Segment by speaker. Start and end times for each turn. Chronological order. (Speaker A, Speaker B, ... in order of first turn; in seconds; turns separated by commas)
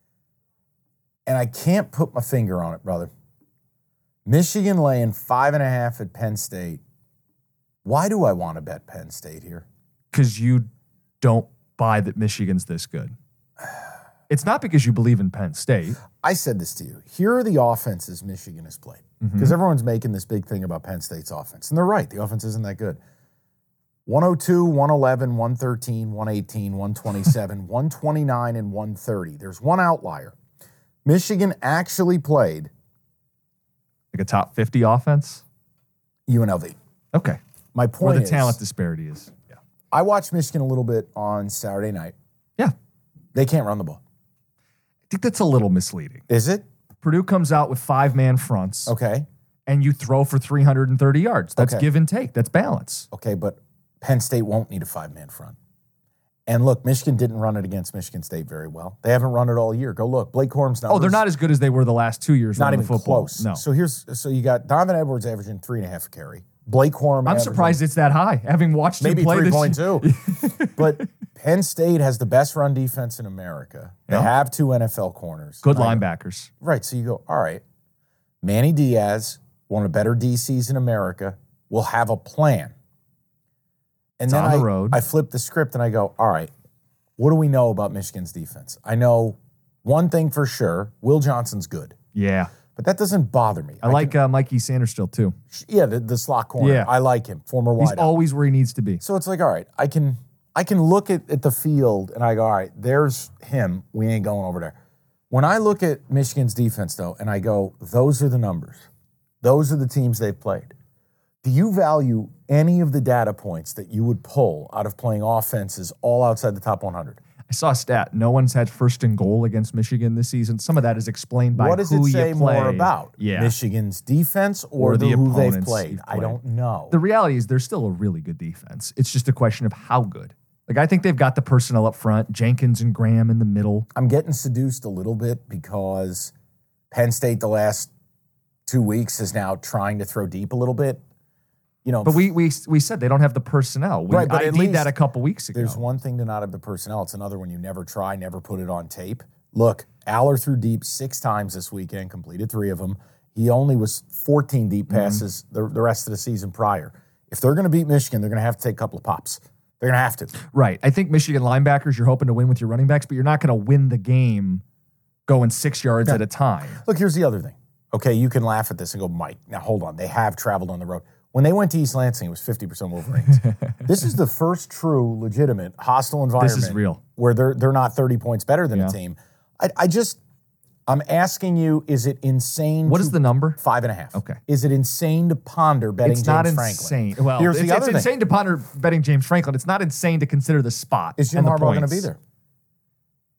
Speaker A: 1.2-3.1, Speaker A: 4.2-6.8, Speaker A: 7.8-9.7, Speaker B: 10.1-10.7, Speaker B: 11.2-13.1, Speaker B: 14.3-16.0, Speaker A: 16.2-23.0, Speaker B: 19.2-19.6, Speaker A: 24.1-30.3, Speaker A: 31.0-32.7, Speaker B: 34.1-35.4, Speaker A: 36.3-36.7, Speaker B: 37.1-37.4, Speaker A: 37.7-38.6, Speaker B: 38.0-39.3, Speaker A: 39.9-42.1, Speaker A: 43.3-44.0, Speaker B: 45.1-46.2, Speaker A: 46.3-46.6, Speaker B: 47.0-48.9, Speaker A: 48.9-49.2, Speaker B: 49.7-53.1, Speaker A: 51.6-51.9, Speaker A: 53.1-55.5, Speaker A: 56.5-61.2, Speaker B: 60.9-63.6, Speaker A: 62.5-67.8, Speaker B: 67.2-71.0, Speaker A: 69.0-70.1, Speaker A: 70.8-76.0, Speaker B: 75.6-76.5, Speaker A: 76.6-77.6, Speaker A: 78.4-82.7, Speaker A: 84.2-86.5, Speaker B: 84.3-85.0, Speaker A: 87.2-91.9, Speaker B: 92.1-92.5, Speaker A: 92.8-94.2, Speaker B: 93.8-95.3, Speaker A: 95.5-98.2, Speaker B: 96.6-96.9, Speaker B: 97.8-99.0, Speaker A: 99.0-104.7, Speaker A: 105.3-108.8, Speaker A: 109.4-110.7, Speaker A: 111.4-117.2, Speaker B: 117.5-123.5, Speaker A: 121.5-127.0, Speaker B: 124.8-133.8, Speaker A: 133.9-136.3, Speaker A: 136.9-137.9, Speaker A: 138.7-141.0, Speaker A: 141.8-142.3, Speaker B: 142.0-145.8, Speaker A: 144.1-144.9, Speaker A: 145.5-160.3, Speaker B: 154.9-155.2, Speaker B: 160.4-164.6, Speaker B: 165.3-166.8, Speaker A: 166.8-180.2, Speaker B: 173.4-173.7, Speaker B: 176.4-177.0, Speaker B: 178.7-179.0, Speaker A: 180.9-188.1, Speaker B: 182.8-183.6, Speaker B: 184.1-184.4, Speaker B: 186.0-192.1, Speaker A: 191.2-192.2